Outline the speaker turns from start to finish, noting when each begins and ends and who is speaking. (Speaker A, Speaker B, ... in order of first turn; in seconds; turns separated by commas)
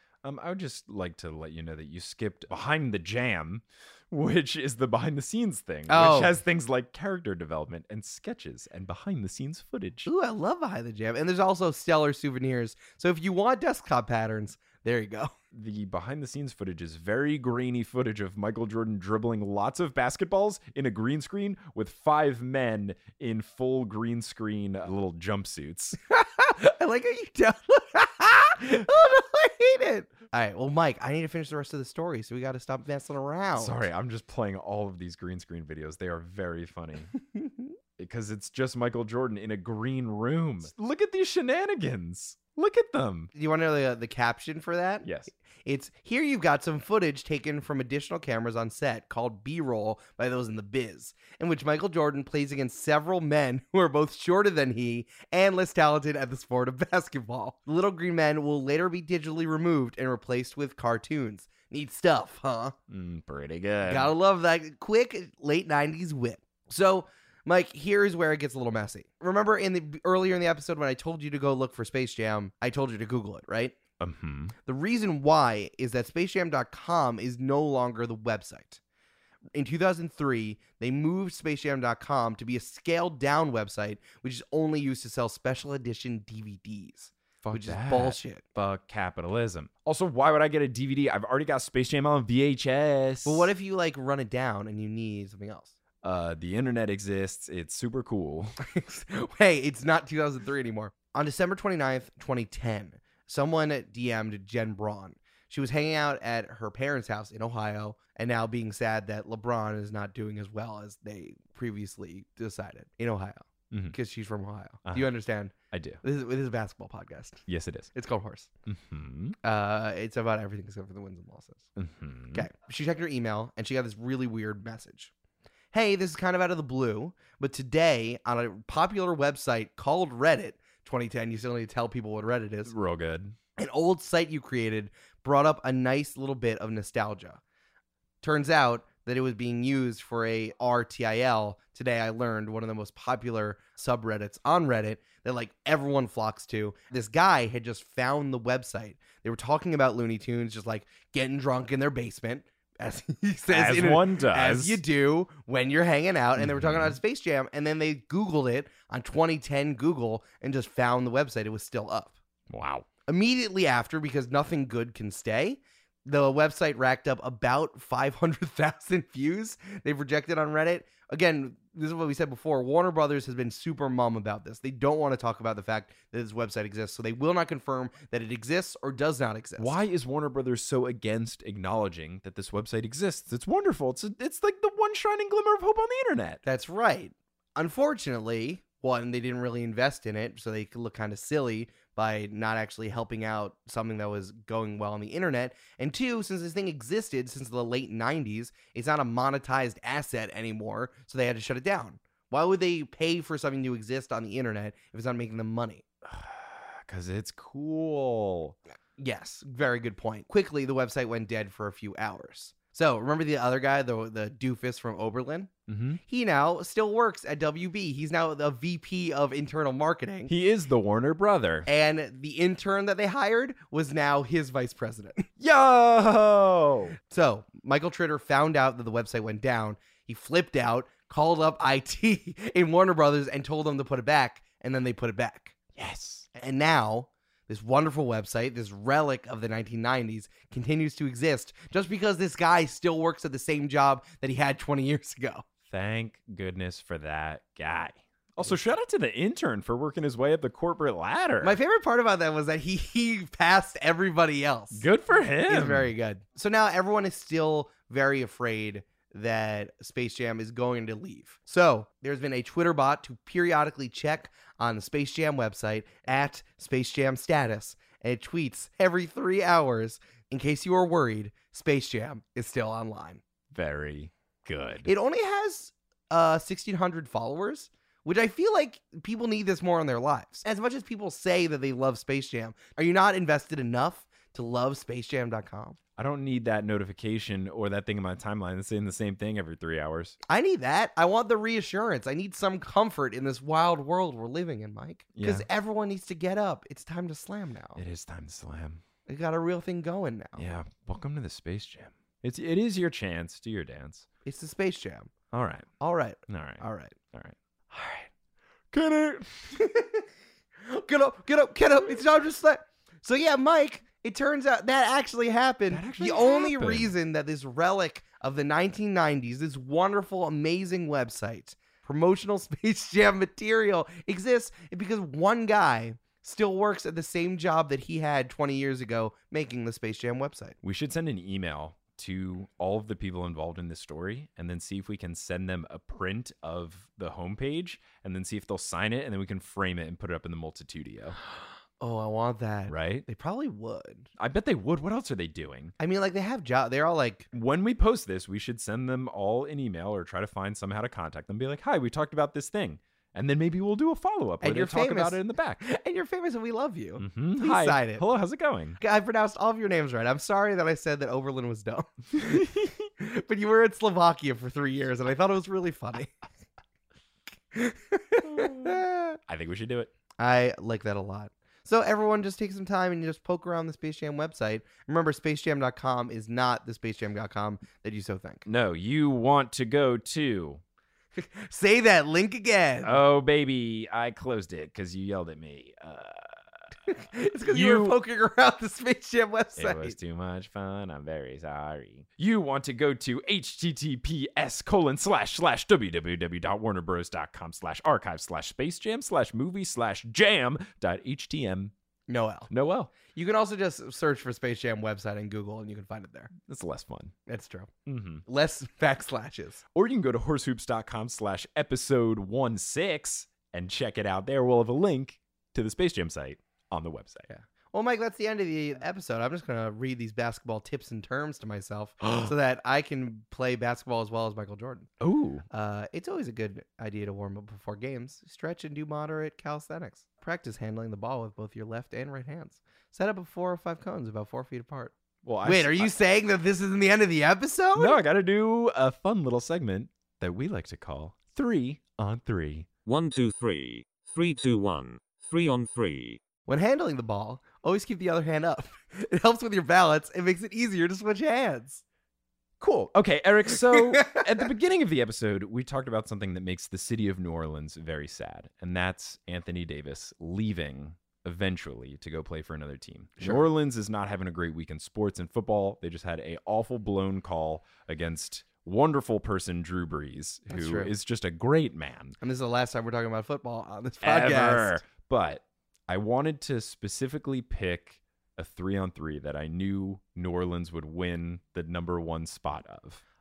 Speaker A: 0.2-10.1, Speaker B: 5.9-6.3, Speaker B: 10.1-15.3, Speaker A: 15.5-26.0, Speaker B: 26.1-33.8, Speaker A: 33.6-37.1, Speaker A: 38.0-43.3, Speaker B: 43.4-62.7, Speaker A: 45.0-45.3, Speaker A: 62.9-64.1, Speaker B: 63.9-73.8, Speaker A: 74.0-74.5, Speaker B: 74.7-78.8, Speaker B: 79.5-88.4, Speaker A: 87.4-93.5, Speaker B: 93.2-95.7, Speaker A: 96.0-98.5, Speaker B: 98.6-117.4, Speaker A: 115.7-116.0, Speaker A: 117.5-117.9, Speaker B: 117.9-118.5, Speaker A: 118.7-119.4, Speaker B: 119.4-121.7, Speaker A: 121.8-122.5, Speaker B: 122.3-125.1, Speaker B: 125.7-132.7, Speaker A: 132.7-133.4, Speaker B: 133.6-137.4, Speaker B: 138.2-162.2, Speaker A: 153.5-154.8, Speaker A: 156.4-157.0, Speaker A: 162.5-162.9, Speaker B: 163.1-179.8, Speaker A: 179.6-186.4, Speaker B: 186.4-205.8, Speaker A: 206.1-208.6, Speaker B: 209.0-215.5, Speaker A: 215.7-216.0, Speaker B: 216.1-220.3, Speaker A: 220.3-221.7, Speaker B: 221.7-225.3, Speaker A: 225.4-226.9, Speaker B: 227.1-235.6, Speaker A: 235.8-236.3, Speaker B: 236.3-245.4, Speaker A: 245.7-251.6, Speaker B: 251.4-254.9, Speaker A: 254.7-255.9, Speaker B: 255.5-273.2, Speaker A: 273.5-274.9, Speaker B: 274.9-285.8, Speaker A: 286.0-290.2, Speaker B: 290.3-297.8, Speaker A: 295.1-295.5, Speaker A: 297.8-298.8, Speaker B: 299.1-300.4, Speaker A: 300.4-304.1, Speaker B: 304.2-305.1, Speaker A: 305.3-305.7, Speaker B: 305.8-307.0, Speaker A: 306.3-308.1, Speaker A: 308.7-309.6, Speaker B: 309.5-310.1, Speaker B: 310.7-330.6, Speaker A: 315.7-316.9, Speaker A: 330.6-341.2, Speaker B: 341.8-344.1, Speaker A: 342.7-343.1, Speaker A: 344.2-345.7, Speaker B: 345.8-347.3, Speaker A: 347.3-355.6, Speaker B: 354.4-358.1, Speaker A: 357.0-358.8, Speaker B: 358.8-366.1, Speaker A: 362.2-362.7, Speaker B: 367.5-369.2, Speaker A: 368.2-369.9, Speaker B: 370.2-378.4, Speaker A: 378.5-380.6, Speaker B: 381.2-383.0, Speaker A: 382.8-386.4, Speaker B: 386.9-389.9, Speaker A: 387.4-388.0, Speaker A: 389.6-401.7, Speaker B: 402.1-402.5, Speaker A: 402.5-402.9, Speaker B: 403.1-406.3, Speaker A: 406.4-407.1, Speaker B: 407.3-407.7, Speaker A: 407.9-408.2, Speaker B: 408.3-409.6, Speaker A: 409.7-417.3, Speaker B: 417.3-424.9, Speaker A: 422.1-422.3, Speaker A: 425.0-425.4, Speaker B: 425.5-434.9, Speaker A: 435.2-436.0, Speaker B: 435.4-438.0, Speaker A: 437.8-442.7, Speaker C: 442.9-446.2, Speaker B: 446.5-451.8, Speaker A: 452.6-472.1, Speaker B: 453.7-454.3, Speaker B: 470.5-470.9, Speaker B: 472.2-474.8, Speaker A: 474.0-483.0